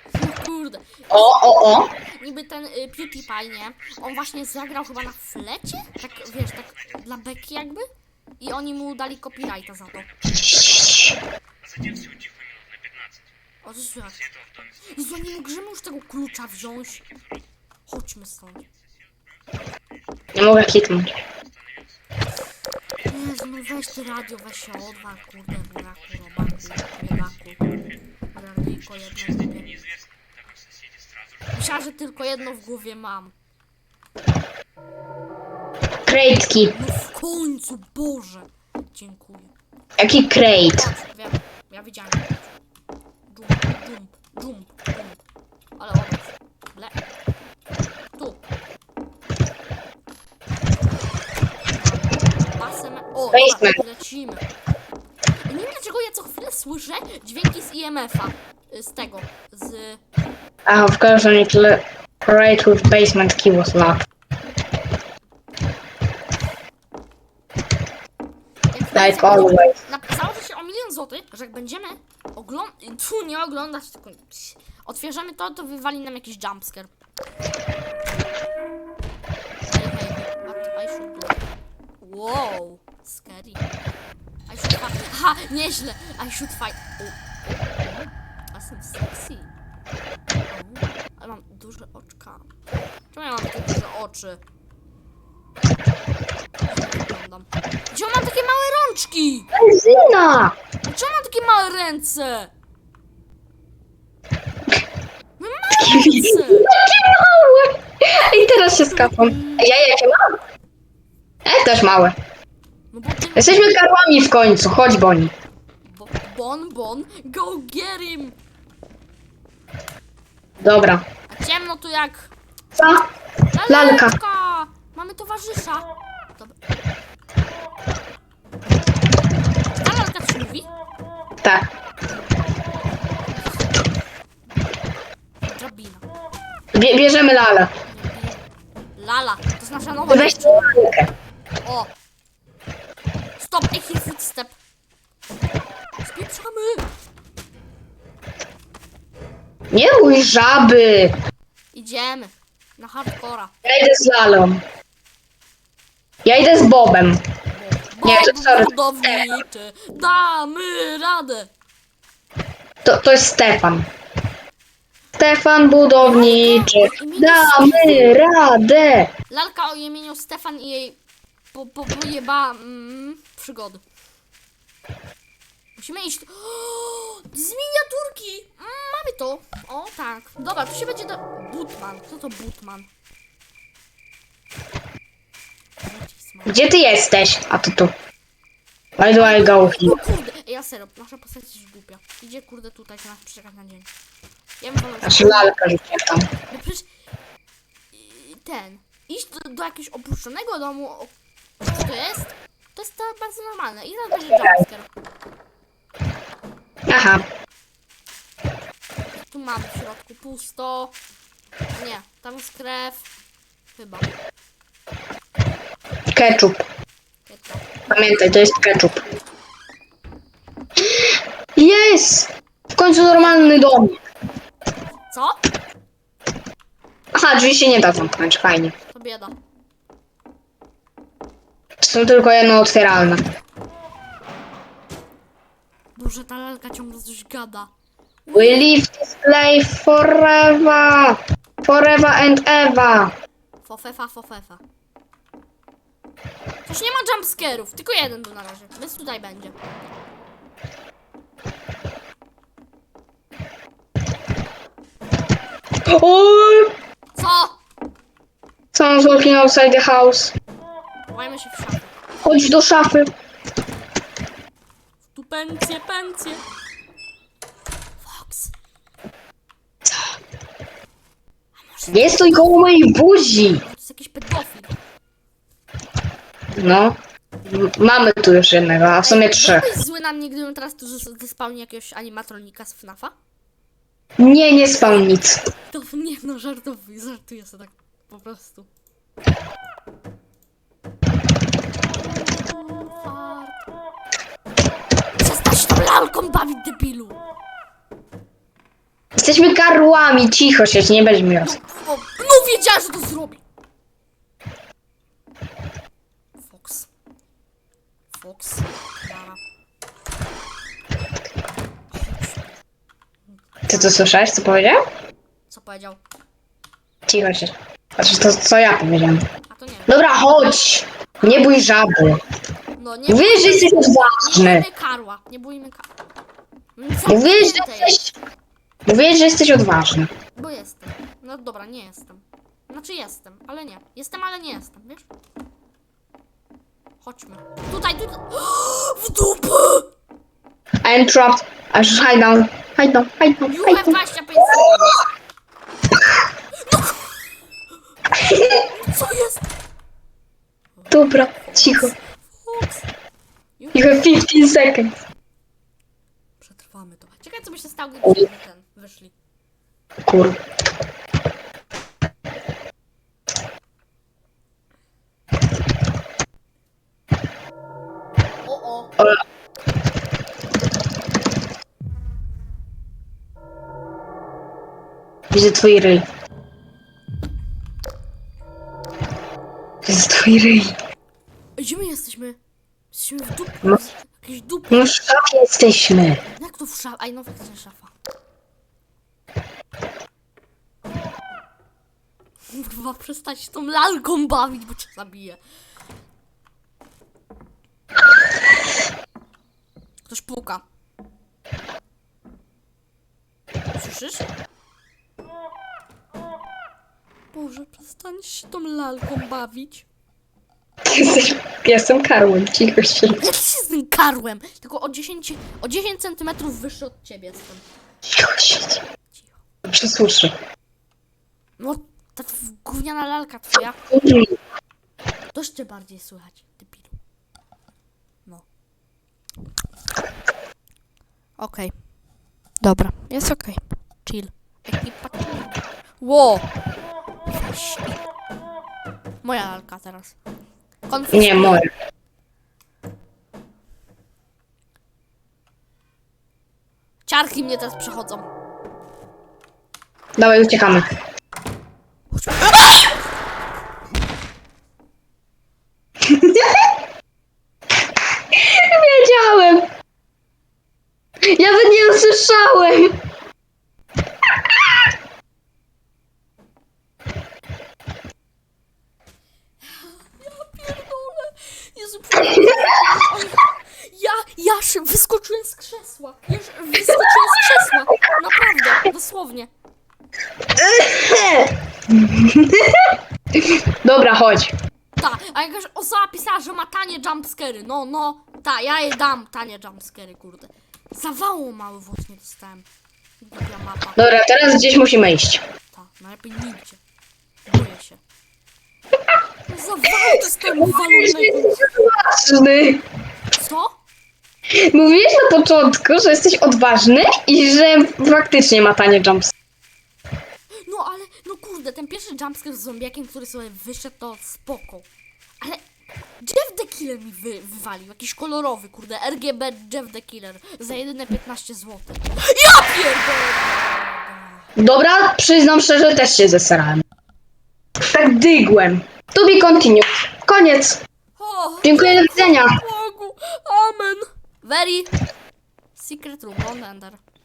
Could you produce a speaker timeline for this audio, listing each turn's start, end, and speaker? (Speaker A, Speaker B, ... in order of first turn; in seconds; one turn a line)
Speaker A: 0.1-7.9
Speaker B: 1.1-1.9
Speaker A: 8.4-10.1
Speaker B: 10.3-11.2
Speaker A: 13.6-14.3
Speaker A: 14.8-17.1
Speaker A: 17.9-18.6
Speaker B: 20.3-21.1
Speaker A: 23.0-27.7
Speaker A: 28.3-29.8
Speaker A: 31.5-33.3
Speaker B: 36.1-36.7
Speaker A: 36.7-39.5
Speaker B: 40.0-40.9
Speaker A: 40.6-42.5
Speaker A: 43.3-45.2
Speaker A: 45.8-47.0
Speaker A: 48.2-48.4
Speaker A: 51.7-54.4
Speaker B: 53.3-53.8
Speaker A: 55.4-60.0
Speaker B: 60.6-64.0
Speaker A: 68.7-76.9
Speaker B: 68.9-69.7
Speaker A: 79.7-81.4
Speaker A: 82.0-83.6
Speaker A: 84.5-89.5
Speaker A: 90.5-92.5
Speaker A: 93.1-94.4
Speaker A: 96.7-99.5
Speaker B: 99.5-100.5
Speaker A: 100.8-102.5
Speaker A: 105.4-106.7
Speaker B: 105.7-110.4
Speaker A: 108.6-109.7
Speaker B: 111.4-112.2
Speaker A: 112.9-113.8
Speaker B: 113.3-115.3
Speaker A: 115.8-118.3
Speaker B: 120.6-121.0
Speaker A: 121.3-122.3
Speaker B: 122.7-123.1
Speaker A: 123.5-126.5
Speaker B: 123.7-124.2
Speaker A: 129.8-130.7
Speaker A: 133.1-133.7
Speaker A: 135.4-136.0
Speaker B: 136.7-137.7
Speaker A: 137.8-138.4
Speaker A: 138.9-140.9
Speaker B: 140.1-141.1
Speaker A: 141.6-141.9
Speaker A: 143.4-144.6
Speaker A: 146.0-146.9
Speaker B: 149.7-151.2
Speaker A: 151.7-153.5
Speaker B: 153.6-154.6
Speaker B: 156.2-157.2
Speaker A: 157.5-161.5
Speaker B: 158.0-159.2
Speaker B: 162.8-163.9
Speaker B: 165.2-169.1
Speaker A: 166.0-168.2
Speaker A: 169.3-171.0
Speaker A: 171.5-173.8
Speaker A: 175.8-182.9
Speaker A: 185.8-186.6
Speaker B: 186.4-187.9
Speaker B: 189.0-190.0
Speaker A: 189.2-193.9
Speaker A: 194.6-195.5
Speaker B: 195.0-196.3
Speaker A: 196.5-196.8
Speaker A: 197.9-204.9
Speaker B: 204.3-204.6
Speaker B: 206.9-207.2
Speaker A: 209.3-210.9
Speaker A: 211.7-213.1
Speaker A: 213.8-214.1
Speaker B: 216.1-216.7
Speaker A: 217.2-217.8
Speaker B: 217.9-219.0
Speaker B: 220.8-223.9
Speaker A: 223.1-223.8
Speaker A: 225.1-225.4
Speaker B: 227.1-228.7
Speaker A: 228.9-229.3
Speaker B: 231.8-233.2
Speaker A: 235.9-237.7
Speaker A: 238.2-238.7
Speaker B: 238.3-243.1
Speaker A: 243.6-244.6
Speaker A: 246.7-249.6
Speaker B: 255.8-256.7
Speaker A: 257.1-257.6
Speaker B: 258.7-260.3
Speaker A: 261.1-261.9
Speaker B: 262.2-263.1
Speaker A: 265.1-266.4
Speaker A: 268.0-268.5
Speaker A: 271.5-272.6
Speaker B: 271.9-273.6
Speaker A: 273.6-274.7
Speaker B: 276.5-279.7
Speaker A: 279.0-283.1
Speaker B: 284.2-285.4
Speaker A: 285.7-288.7
Speaker A: 291.9-293.6
Speaker A: 295.1-297.2
Speaker B: 299.1-301.5
Speaker A: 301.4-303.4
Speaker A: 306.4-306.9
Speaker A: 308.1-309.4
Speaker A: 311.9-312.6
Speaker A: 313.3-314.1
Speaker B: 313.7-314.8
Speaker A: 315.5-316.0
Speaker B: 317.1-319.2
Speaker A: 319.5-320.0
Speaker B: 319.9-322.2
Speaker A: 321.2-321.5
Speaker A: 322.8-325.9
Speaker B: 323.1-324.6
Speaker A: 326.8-328.0
Speaker B: 327.1-328.1
Speaker B: 328.9-330.1
Speaker A: 330.3-335.1
Speaker A: 337.0-339.9
Speaker B: 340.8-345.0
Speaker A: 343.5-345.0
Speaker A: 346.5-347.2
Speaker B: 348.1-348.6
Speaker A: 348.3-349.5
Speaker A: 350.8-352.9
Speaker B: 350.9-351.9
Speaker A: 353.6-354.1
Speaker B: 353.7-355.0
Speaker A: 356.4-359.1
Speaker B: 360.1-360.4
Speaker A: 368.4-368.9
Speaker B: 375.3-376.1
Speaker B: 379.8-380.8
Speaker A: 381.6-382.4
Speaker A: 382.9-384.9
Speaker B: 384.7-386.2
Speaker A: 386.3-387.9
Speaker A: 392.5-395.4
Speaker A: 400.1-400.6
Speaker A: 403.7-404.2
Speaker A: 407.3-409.9
Speaker B: 410.8-413.2
Speaker A: 413.2-417.6
Speaker B: 418.0-418.8
Speaker A: 419.1-419.4
Speaker B: 419.6-420.3
Speaker A: 421.6-423.8
Speaker B: 423.9-424.3
Speaker A: 425.3-426.9
Speaker A: 431.4-431.8
Speaker A: 432.6-436.5
Speaker A: 437.3-438.0
Speaker A: 439.2-440.1
Speaker A: 440.9-441.6
Speaker B: 441.1-441.7
Speaker A: 447.1-448.3
Speaker B: 450.2-450.9
Speaker A: 452.1-453.0
Speaker B: 456.0-456.7
Speaker B: 458.3-459.7
Speaker B: 461.2-463.0
Speaker A: 469.6-479.5
Speaker B: 480.6-484.5
Speaker A: 485.0-492.6
Speaker A: 493.2-494.0
Speaker B: 494.0-495.4
Speaker A: 495.7-496.8
Speaker A: 497.4-498.0
Speaker A: 499.5-501.7
Speaker B: 500.1-502.8
Speaker A: 503.3-503.8
Speaker B: 504.5-509.3
Speaker A: 510.6-514.9
Speaker A: 515.4-515.6
Speaker A: 516.2-524.5
Speaker B: 524.5-526.8
Speaker B: 527.8-530.8
Speaker A: 531.2-534.9
Speaker B: 531.6-532.6
Speaker A: 535.7-537.0